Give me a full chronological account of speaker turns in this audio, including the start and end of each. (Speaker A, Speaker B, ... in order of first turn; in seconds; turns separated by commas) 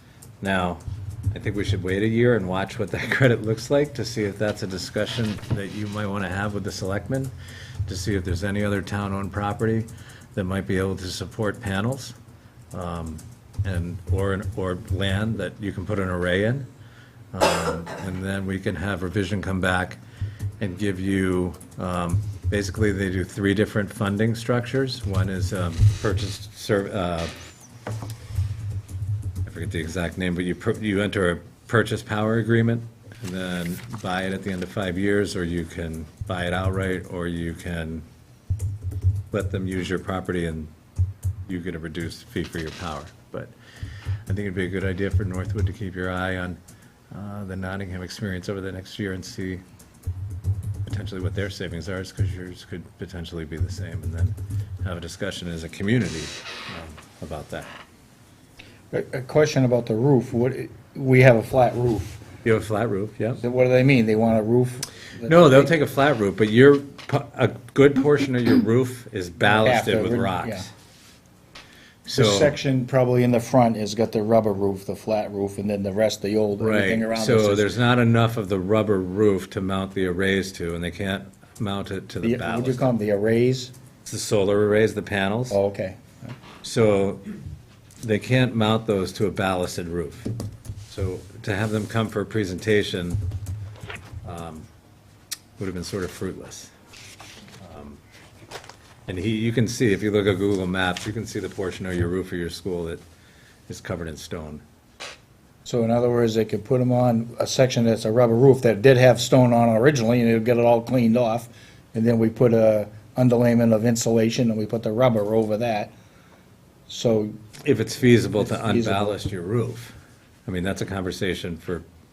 Speaker A: 0.4-7.3, Speaker A: 7.9-12.1, Speaker A: 12.7-16.7, Speaker A: 17.3-20.0, Speaker A: 20.6-27.3, Speaker A: 29.4-38.0, Speaker A: 39.3-40.7, Speaker A: 41.5-43.5, Speaker A: 44.3-46.6, Speaker A: 47.1-49.6, Speaker A: 50.8-57.7, Speaker B: 58.9-62.2, Speaker A: 62.4-63.4, Speaker B: 63.4-65.7, Speaker A: 65.2-70.7, Speaker B: 69.4-70.7, Speaker A: 72.0-72.6, Speaker B: 72.1-77.7, Speaker A: 76.6-82.9, Speaker B: 82.2-83.7, Speaker A: 84.0-85.6, Speaker B: 85.5-86.3, Speaker A: 86.6-87.2, Speaker A: 88.0-90.3, Speaker A: 90.9-93.2, Speaker A: 94.2-94.7, Speaker A: 95.6-96.7, Speaker A: 97.6-98.0, Speaker A: 99.1-103.0, Speaker A: 103.7-104.6, Speaker B: 105.6-115.9, Speaker B: 116.9-117.3, Speaker A: 117.6-119.9, Speaker B: 118.3-119.2, Speaker A: 120.5-121.8